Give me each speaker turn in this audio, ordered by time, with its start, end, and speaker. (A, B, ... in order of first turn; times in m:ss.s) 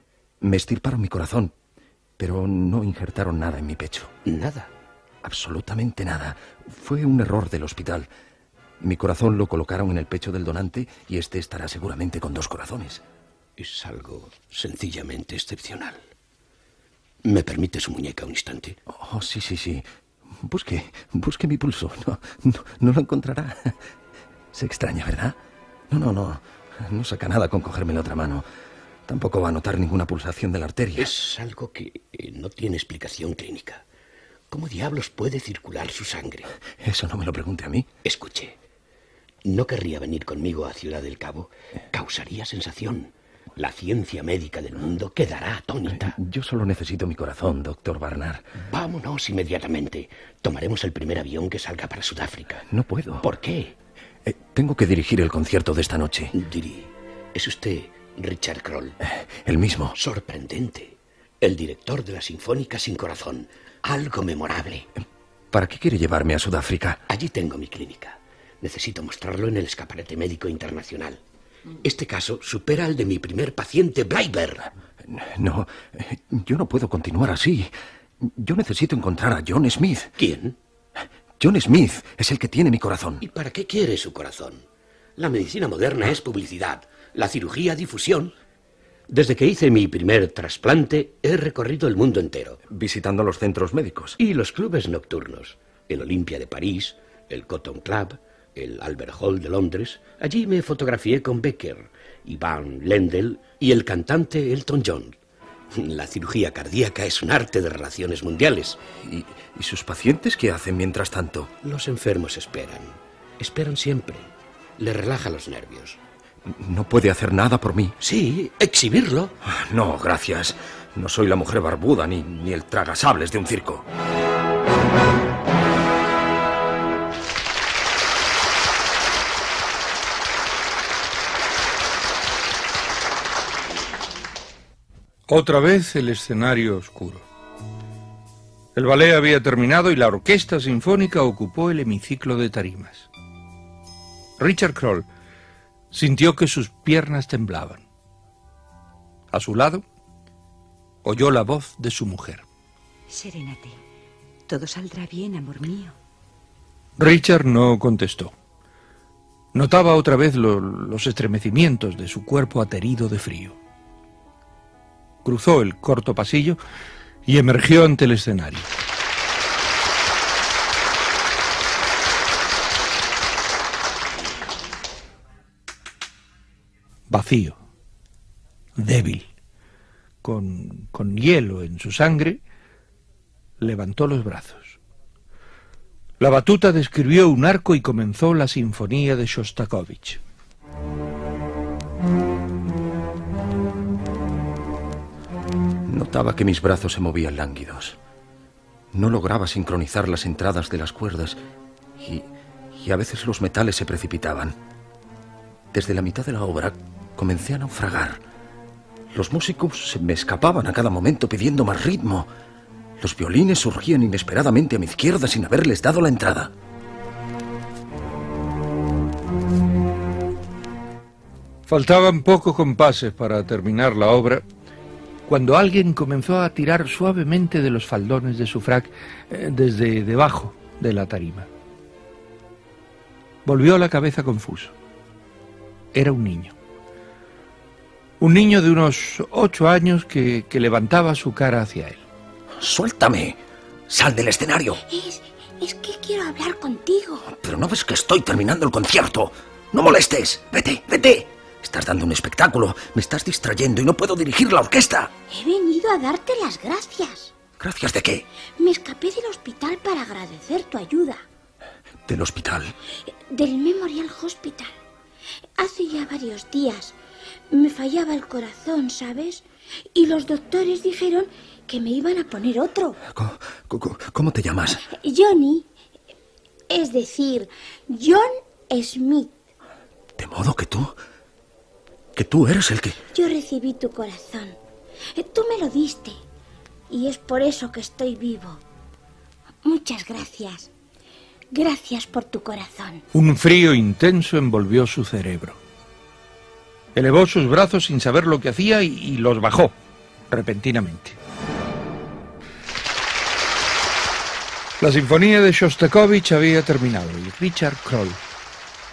0:00.4-0:01.5 A
0:02.2-0:04.1 A
0:04.2-0:04.7 B
0:05.2-0:08.1 A
0:08.8-0:13.0 A
0:13.6-0:16.0 B
0:17.2-0:18.8 B
0:18.9-0:23.8 A
0:24.5-0:25.4 A
0:25.9-0:28.4 A
0:29.1-0:31.2 A
0:31.0-0:33.8 B
0:34.5-0:36.5 B
0:36.8-0:37.9 A
0:38.0-0:38.6 B
0:39.4-0:46.2 B
0:45.9-0:48.5 A
0:48.6-0:52.6 B
0:52.7-0:53.3 A
0:53.2-0:53.7 B
0:54.3-0:56.3 A
0:56.3-0:59.0 B
0:59.1-1:00.0 A
1:00.0-1:04.9 B
1:05.5-1:07.0 A
1:07.1-1:11.2 B
1:11.8-1:14.7 B
1:15.0-1:20.2 A
1:20.2-1:20.6 B
1:21.4-1:23.2 A
1:23.2-1:24.6 B
1:25.2-1:28.3 B
1:29.1-1:32.6 B
1:32.7-1:34.2 A
1:34.2-1:45.2 B
1:45.7-1:48.8 B
1:49.0-1:51.5 A
1:51.6-1:56.0 B
1:56.5-1:58.0 A
1:58.0-1:59.3 B
1:59.4-2:03.9 A
2:15.3-2:17.3 C
2:18.8-2:23.1 C
2:24.4-2:25.1 C
2:25.9-2:27.8 C
2:29.3-2:29.8 C
2:31.0-2:32.4 C
2:33.1-2:33.8 D
2:34.5-2:36.0 D
2:37.0-2:38.3 C
2:39.5-2:43.6 C
2:45.2-2:46.6 C
2:47.3-2:48.7 C
2:57.1-2:57.6 C
2:58.8-2:59.3 C
3:00.2-3:02.4 C
3:03.6-3:04.8 C
3:06.2-3:10.2 C
3:15.9-3:18.0 A
3:18.9-3:21.4 A
3:22.0-3:24.6 A
3:25.7-3:28.2 A
3:29.1-3:32.3 A
3:33.0-3:36.5 A
3:41.7-3:44.4 C
3:45.3-3:51.5 C
3:53.4-3:54.7 C
3:55.9-3:56.5 C
3:58.2-4:02.0 C
4:02.6-4:04.8 A
4:04.9-4:07.2 E
4:07.3-4:15.1 A
4:15.3-4:17.3 E
4:17.6-4:18.3 A
4:18.6-4:21.2 E
4:22.1-4:22.8 A
4:23.3-4:24.7 E
4:25.6-4:27.0 E
4:27.5-4:33.0 E
4:33.1-4:34.8 A
4:34.9-4:35.7 E
4:36.7-4:39.4 E
4:40.2-4:41.0 A
4:42.2-4:43.0 A
4:43.1-4:44.6 E
4:45.2-4:46.2 E
4:46.9-4:48.6 E
4:49.6-4:50.7 E
4:51.5-4:53.0 E
4:53.1-4:55.6 C
4:57.0-4:59.8 C
5:00.3-5:01.2 C
5:04.8-5:08.2 C